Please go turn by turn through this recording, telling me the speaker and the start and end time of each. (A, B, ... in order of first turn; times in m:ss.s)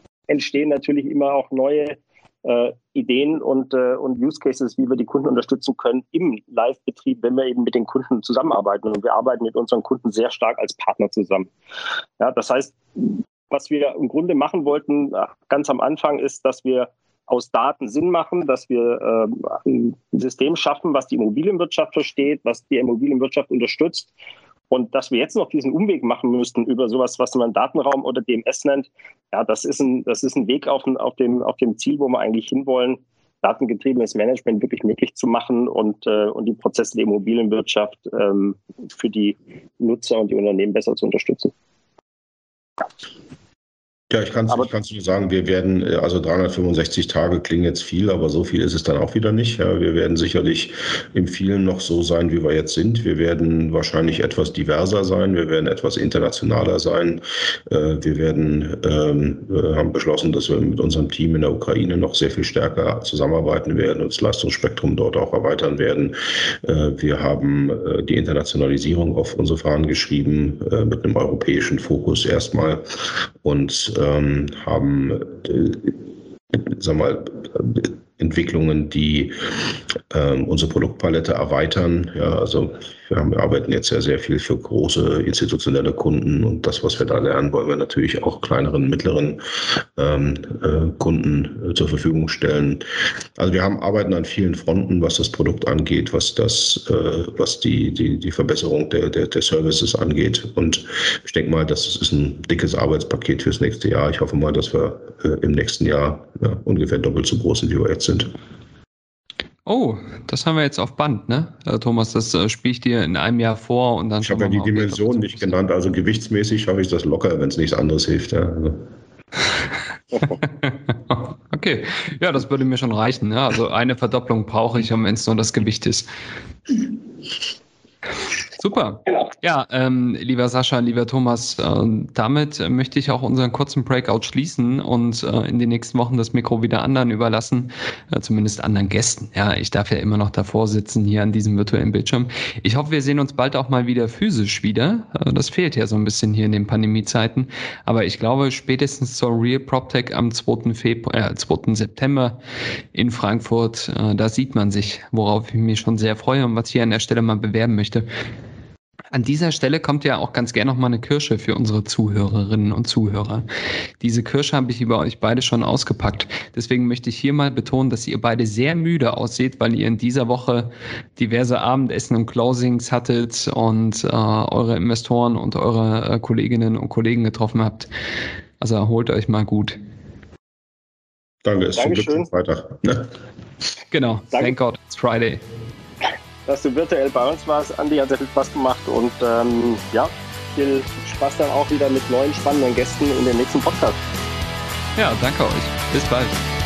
0:00.3-0:11.5 A
0:12.2-0:24.1 A
0:24.7-0:41.5 A
0:44.1-1:15.9 B
1:16.6-1:19.3 B
1:20.1-1:32.8 B
1:33.4-1:48.3 B
1:49.6-1:55.5 C
1:54.2-1:58.8 B
2:00.1-2:06.1 C
2:08.6-2:32.4 C
2:32.9-2:38.0 C
2:39.1-2:43.4 C
2:44.0-2:57.9 C
2:58.6-2:59.8 C
3:01.4-3:03.1 B
3:01.8-3:02.3 A
3:03.9-3:05.4 C
3:06.5-3:14.0 A
3:15.0-3:16.4 C